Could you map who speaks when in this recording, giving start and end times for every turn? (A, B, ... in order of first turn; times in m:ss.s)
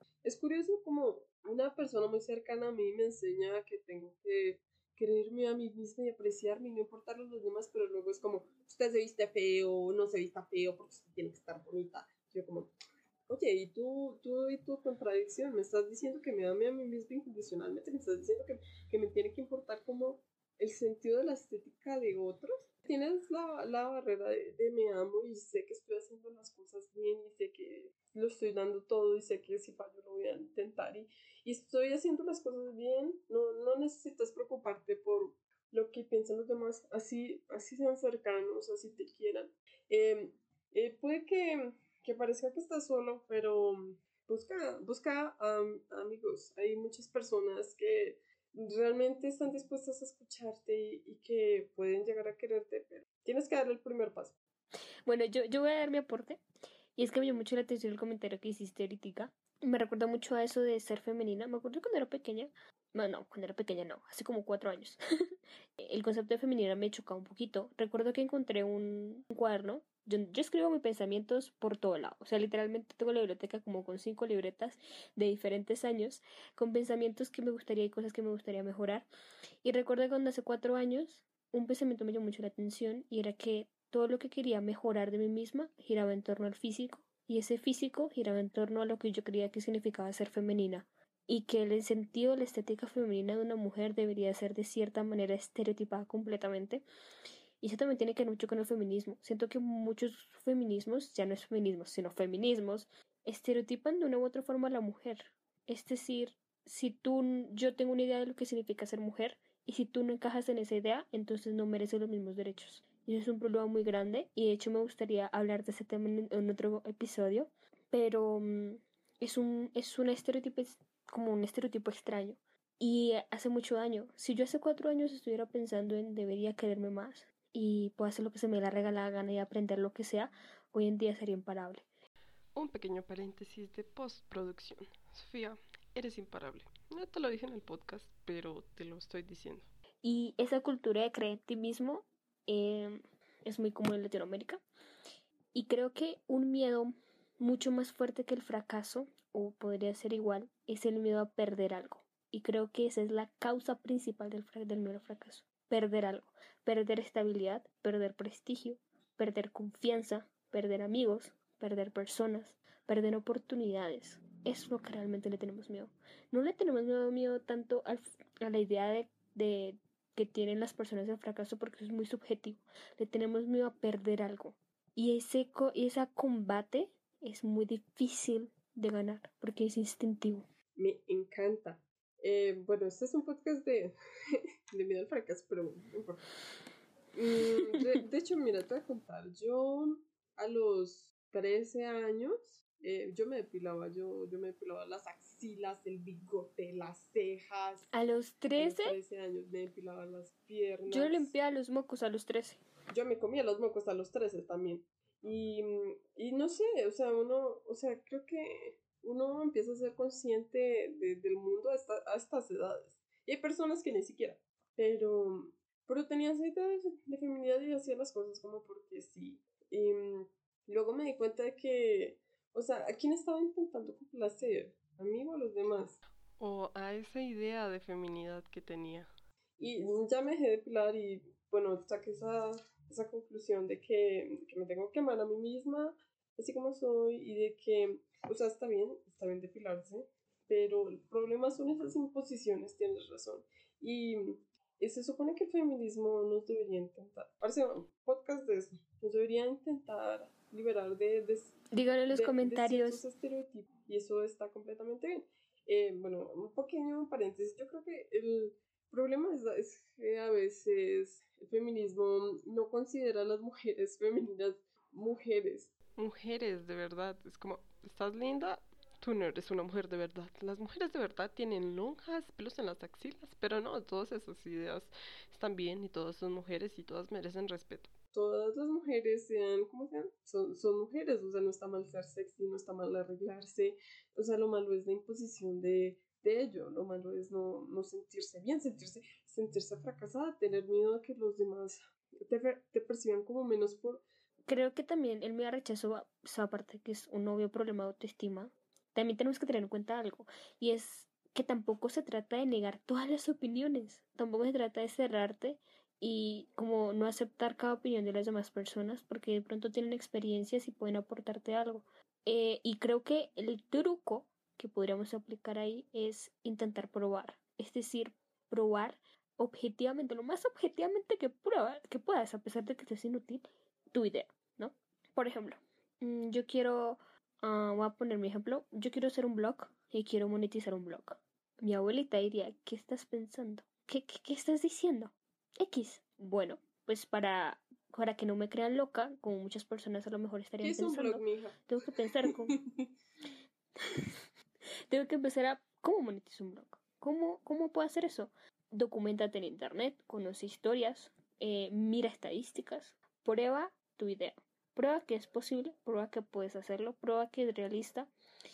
0:00.2-0:12.7 A
0:13.3-0:54.4 A
0:55.0-0:56.4 B
0:57.0-1:05.0 B
1:05.8-1:19.1 B
1:19.6-1:36.8 B
1:37.6-2:11.8 B
2:12.5-2:19.7 C
2:20.0-2:24.6 B
2:25.5-3:00.4 B
3:00.8-3:03.9 A
3:04.7-3:06.2 A
3:07.1-3:17.9 A
3:17.9-3:19.0 B
3:18.6-3:21.3 A
3:20.9-3:22.6 B
3:22.9-3:46.0 A
3:46.4-3:49.1 C
3:49.6-4:11.6 A
4:11.7-4:13.0 B
4:12.1-4:25.7 A
4:26.0-4:37.9 C
4:38.1-4:54.0 A
4:54.5-5:42.6 B
5:40.6-5:41.6 A
5:42.3-5:42.9 A
5:44.9-5:58.1 B